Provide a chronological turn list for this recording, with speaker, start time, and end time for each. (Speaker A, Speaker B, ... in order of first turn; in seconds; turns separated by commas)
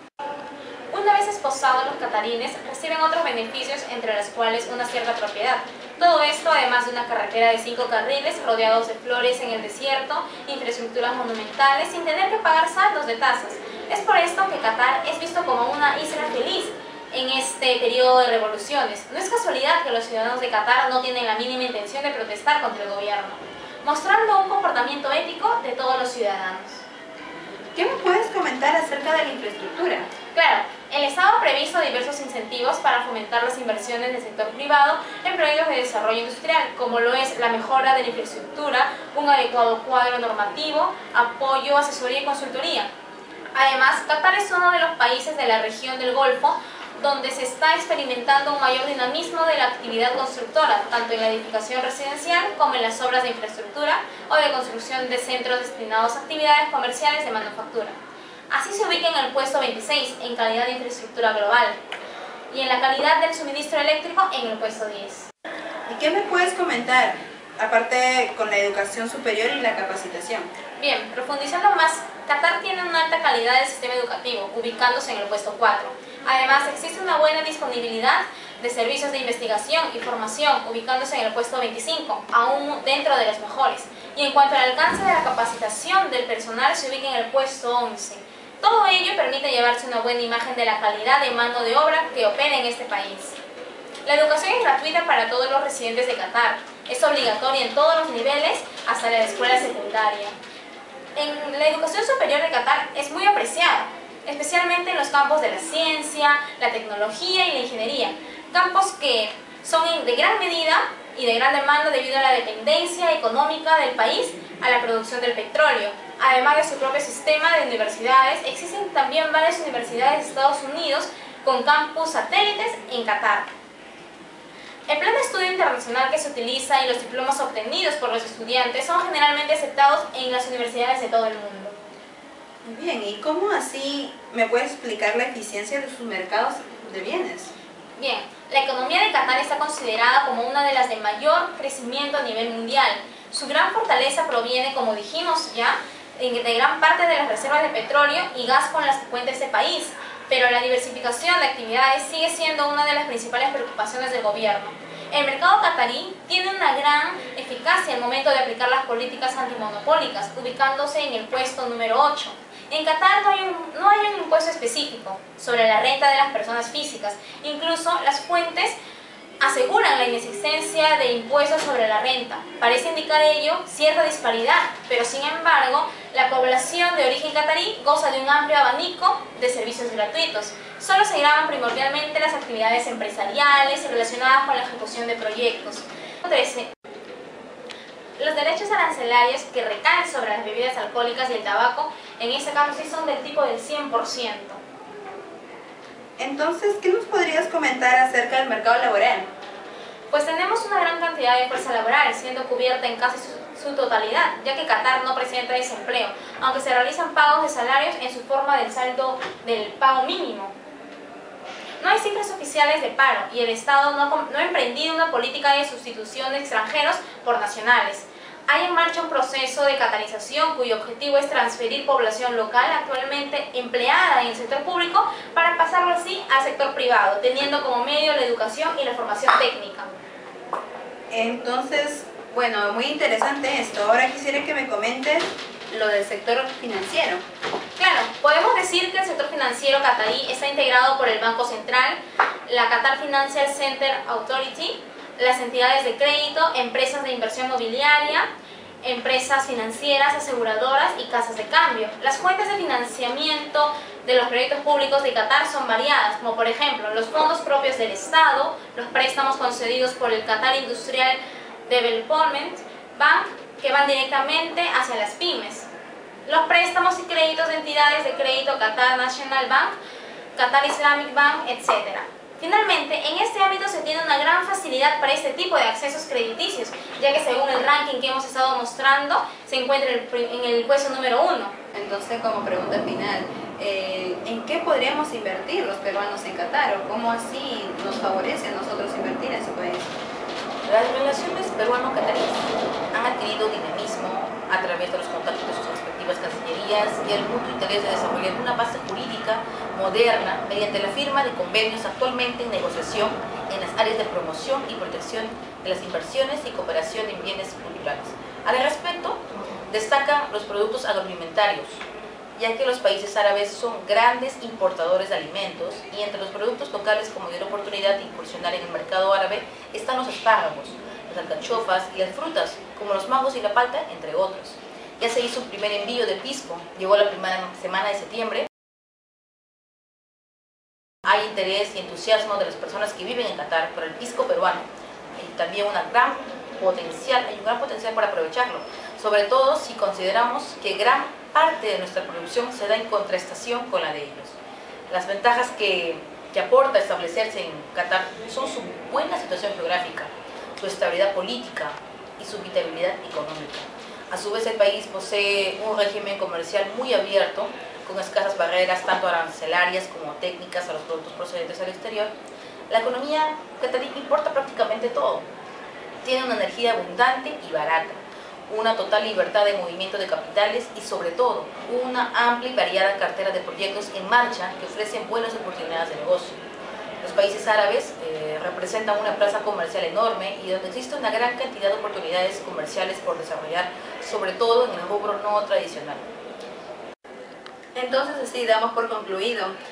Speaker A: 0.9-26.8, Speaker B: 27.7-30.1, Speaker A: 30.3-42.9, Speaker A: 43.5-58.0, Speaker A: 58.5-61.8, Speaker A: 62.5-65.3, Speaker B: 65.9-70.5, Speaker A: 70.8-93.4, Speaker A: 94.0-100.3, Speaker A: 101.2-123.5, Speaker A: 124.9-131.8, Speaker B: 132.6-137.5, Speaker A: 138.0-168.8, Speaker A: 169.4-186.7, Speaker A: 188.2-194.6, Speaker B: 196.2-199.3, Speaker A: 200.1-210.5, Speaker A: 211.8-229.9, Speaker B: 231.1-237.2, Speaker A: 237.8-248.3, Speaker A: 248.8-265.7, Speaker A: 266.2-269.8, Speaker A: 270.4-281.5, Speaker B: 281.7-289.9, Speaker C: 290.6-311.8, Speaker C: 312.4-328.5, Speaker C: 331.0-344.4, Speaker C: 344.9-362.1, Speaker C: 362.7-365.3, Speaker C: 366.0-376.4, Speaker C: 377.0-386.1, Speaker B: 387.7-389.5